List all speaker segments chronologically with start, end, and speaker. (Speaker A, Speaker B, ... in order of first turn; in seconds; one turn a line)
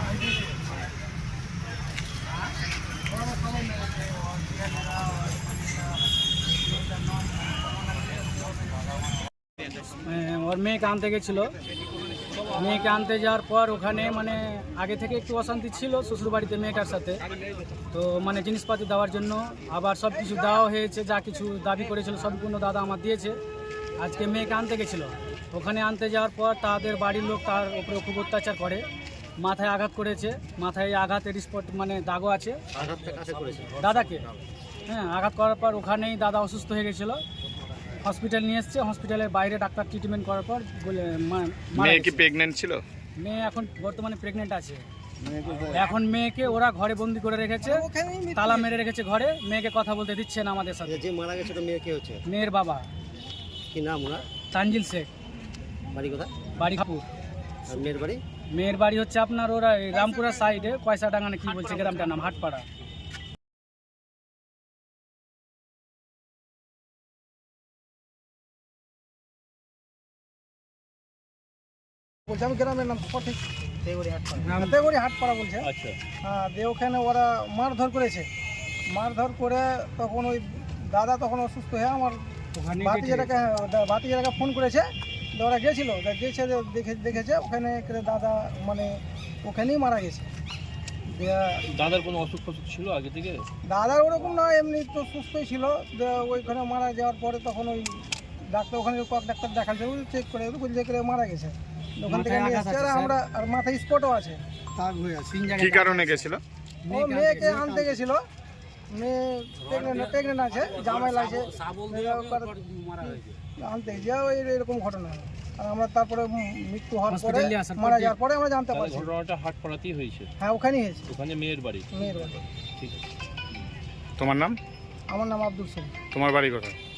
Speaker A: 10.0-11.5
Speaker A: 12.5-17.2
Speaker A: 17.9-23.4
Speaker A: 24.0-28.8
Speaker A: 29.4-32.6
Speaker B: 32.7-34.4
Speaker A: 33.8-34.2
Speaker A: 34.9-37.2
Speaker A: 38.0-42.3
Speaker C: 41.8-42.8
Speaker A: 43.2-44.9
Speaker B: 45.2-45.8
Speaker A: 45.6-47.8
Speaker D: 47.6-48.7
Speaker A: 48.4-51.0
Speaker B: 50.9-52.2
Speaker A: 52.2-52.9
Speaker B: 53.7-54.2
Speaker A: 54.5-55.1
Speaker B: 55.9-56.3
Speaker A: 56.6-57.0
Speaker B: 57.7-58.2
Speaker A: 58.5-62.7
Speaker D: 59.9-60.6
Speaker D: 72.3-73.4
Speaker B: 73.8-74.5
Speaker A: 74.4-74.8
Speaker D: 74.6-75.7
Speaker E: 75.6-76.0
Speaker D: 76.2-78.3
Speaker D: 78.8-82.3
Speaker A: 82.5-83.3
Speaker D: 82.8-90.3
Speaker D: 91.1-91.6
Speaker E: 91.7-93.5
Speaker D: 93.6-104.4
Speaker A: 102.1-103.2
Speaker A: 104.8-106.3
Speaker C: 105.6-106.4
Speaker A: 106.8-108.0
Speaker D: 106.9-108.2
Speaker D: 108.9-112.5
Speaker A: 111.6-113.2
Speaker D: 113.0-119.1
Speaker A: 117.1-118.2
Speaker E: 118.7-120.3
Speaker D: 120.4-121.1
Speaker E: 121.1-123.0
Speaker D: 121.9-122.3
Speaker C: 124.2-124.6
Speaker D: 125.1-125.9
Speaker C: 126.1-126.8